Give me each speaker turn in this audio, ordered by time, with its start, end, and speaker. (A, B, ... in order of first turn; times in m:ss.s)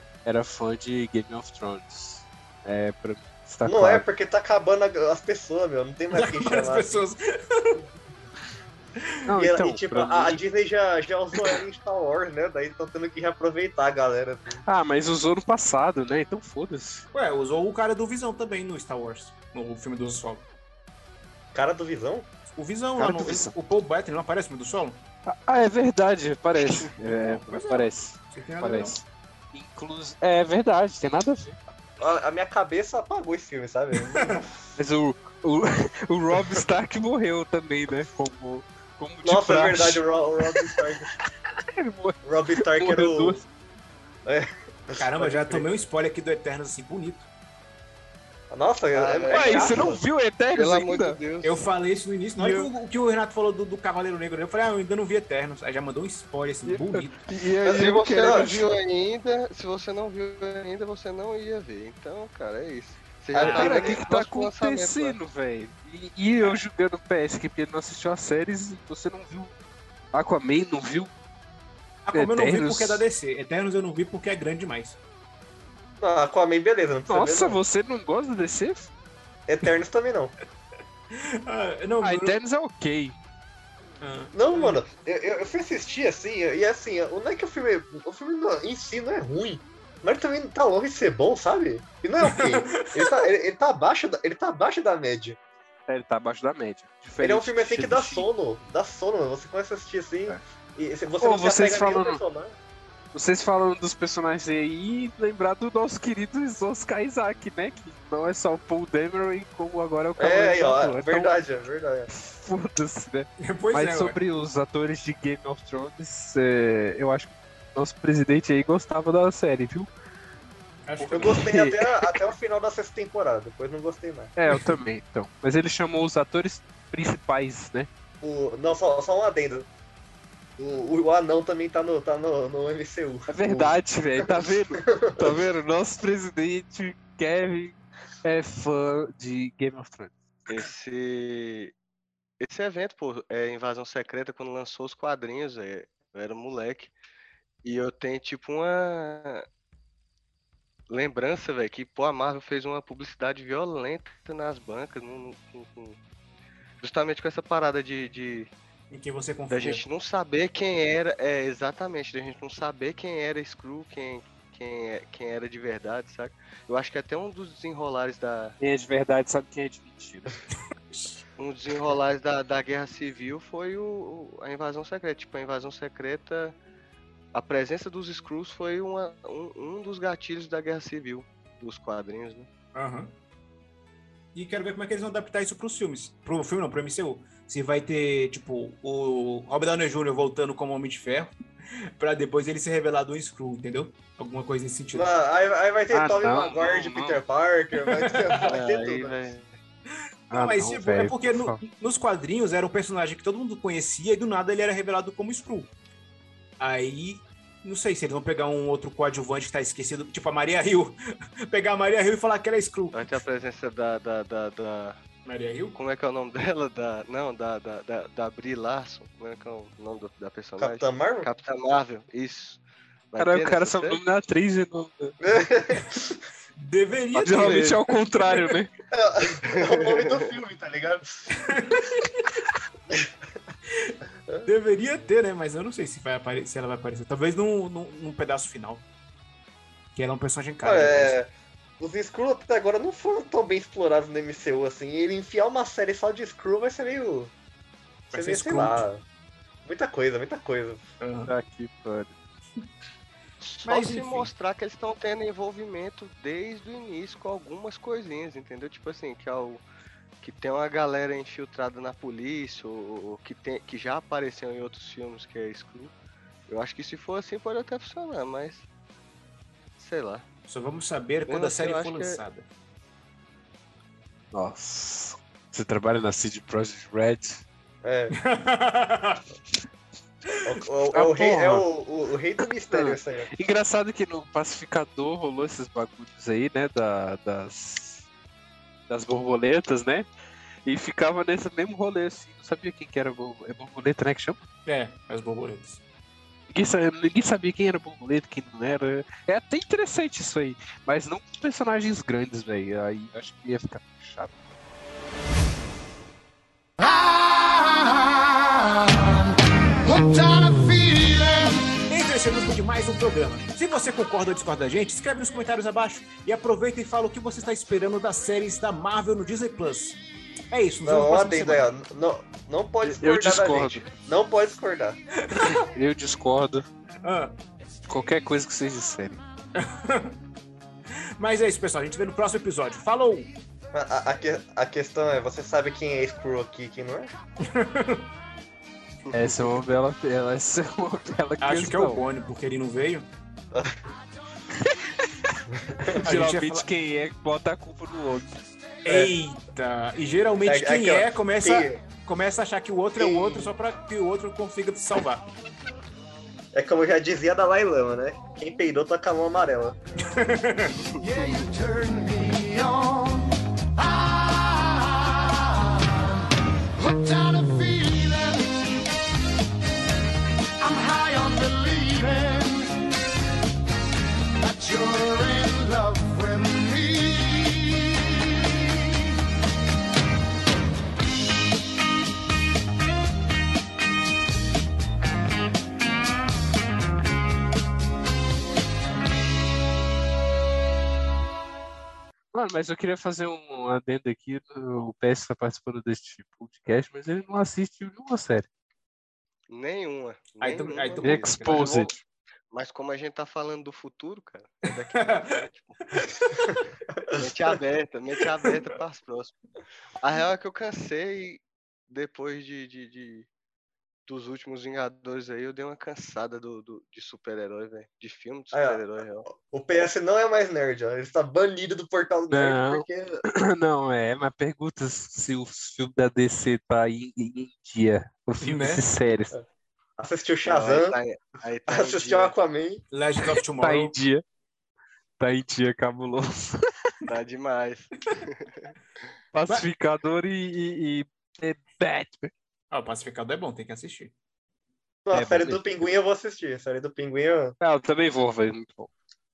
0:00.2-0:04.0 A
0:03.6-0:07.0 B
0:06.1-0:07.8 C
0:09.3-0:10.4 A
0:09.4-0:14.6 B
0:14.6-0:17.0 A
0:17.1-0:20.5 C
0:21.5-0:22.3 B
0:22.5-0:25.0 C
0:23.0-0:23.5 A
0:25.2-0:31.6 A
0:27.0-0:29.0 C
0:32.0-0:34.4 B
0:34.1-0:34.4 C
0:34.8-0:40.7 A
0:39.2-0:41.1 B
0:41.7-0:43.4 A
0:42.2-0:43.4 B
0:44.2-0:45.7 B
0:45.0-0:47.3 C
0:48.5-0:50.0 B
0:48.9-0:50.0 D
0:49.3-0:51.2 A
0:50.5-0:51.6 D
0:51.4-0:57.2 C
0:52.4-0:52.7 A
0:56.6-0:58.7 A
0:57.6-0:58.5 B
0:57.7-1:05.2 D
1:03.3-1:04.0 B
1:03.3-1:09.5 A
1:10.1-1:11.1 A
1:12.0-1:15.0 C
1:12.1-1:13.0 A
1:16.0-1:17.6 B
1:17.1-1:18.9 A
1:19.5-1:20.3 B
1:21.1-1:22.4 C
1:22.0-1:23.2 A
1:24.0-1:24.8 C
1:24.3-1:35.4 B
1:32.2-1:33.3 C
1:35.9-1:38.3 A
1:37.2-1:42.5 B
1:41.2-1:42.2 A
1:43.1-1:51.3 A
1:50.2-1:52.1 B
1:52.1-1:59.9 A
1:53.4-1:54.2 C
2:00.8-2:01.4 C
2:01.0-2:02.2 A
2:01.0-2:04.3 B
2:04.4-2:07.9 A
2:08.2-2:09.7 B
2:10.6-2:14.2 B
2:13.3-2:20.6 A
2:14.8-2:15.4 B
2:20.5-2:21.7 D
2:22.4-2:26.9 D
2:27.6-2:29.4 D
2:30.9-2:36.0 D
2:36.8-2:38.5 D
2:38.9-2:39.8 C
2:39.5-2:48.6 D
2:48.6-2:50.4 A
2:51.4-2:56.6 D
2:57.3-3:02.5 D
3:02.7-3:03.1 C
3:04.3-3:11.3 C
3:12.0-3:15.1 C
3:14.9-3:19.1 B
3:15.9-3:17.2 A
3:17.8-3:18.4 C
3:18.4-3:19.5 D
3:20.3-3:21.6 A
3:20.3-3:25.7 C
3:26.6-3:31.0 C
3:31.5-3:33.2 C
3:32.9-3:35.0 D
3:35.2-3:35.8 C
3:35.7-3:42.6 D
3:40.6-3:41.3 B
3:43.1-3:44.0 D
3:43.2-3:45.1 A
3:45.2-3:46.2 B
3:46.6-3:47.8 C
3:47.1-3:47.8 D
3:47.2-3:48.7 A
3:48.9-3:51.1 B
3:49.4-3:50.4 D
3:51.4-3:52.3 C
3:53.7-3:58.8 C
3:59.9-4:01.2 C
4:00.6-4:07.3 B
4:08.1-4:08.9 C
4:08.1-4:09.0 B
4:09.6-4:10.8 B
4:11.0-4:11.3 C
4:11.2-4:12.1 A
4:13.4-4:19.6 D
4:13.6-4:14.3 C
4:20.2-4:25.9 D
4:26.5-4:28.6 D
4:29.8-4:30.2 D
4:30.5-4:32.5 C
4:31.3-4:32.2 D
4:34.3-4:37.4 A
4:37.8-4:38.2 B
4:38.2-4:39.2 C
4:40.4-4:43.3 B
4:40.9-4:41.7 A
4:42.7-4:48.1 A
4:48.9-4:50.0 A
4:50.6-4:54.4 A
4:54.6-4:55.8 C
4:56.5-5:04.3 A
5:11.8-5:20.0 C
5:20.5-5:21.7 C
5:20.8-5:25.0 B
5:22.8-5:23.8 A
5:25.6-5:26.6 A
5:27.0-5:27.4 C
5:27.9-5:29.2 A
5:29.6-5:30.2 C
5:31.2-5:33.3 C
5:33.7-5:37.1 B
5:37.4-5:38.1 C
5:39.1-5:39.5 D
5:39.1-5:42.0 A
5:41.4-5:43.1 C
5:44.6-5:45.4 A
5:46.0-5:48.4 A
5:46.0-5:46.7 C
5:48.8-5:55.3 C
5:48.8-5:49.1 B
5:50.4-5:51.8 B
5:53.0-5:53.5 B
5:56.5-5:59.8 B
6:00.1-6:00.8 C
6:01.5-6:02.8 E
6:11.0-6:12.0 E
6:14.8-6:17.0 E
6:32.3-6:38.5 A
6:39.5-6:42.0 D
6:40.4-6:41.9 C
6:41.0-6:42.0 A
6:42.5-6:45.8 D
6:45.0-6:45.4 C
6:47.1-6:49.4 D
6:50.0-6:53.3 D
6:54.0-6:59.3 D
6:58.5-7:03.2 B
7:02.3-7:09.4 A
7:08.4-7:08.8 C
7:10.0-7:11.0 B
7:10.4-7:12.3 D
7:11.7-7:12.8 B
7:12.9-7:13.9 C
7:13.6-7:14.2 A
7:15.2-7:16.7 A
7:17.1-7:18.7 D
7:19.3-7:22.3 A
7:22.7-7:24.1 C
7:25.0-7:27.5 B
7:25.1-7:25.9 A
7:27.6-7:28.9 A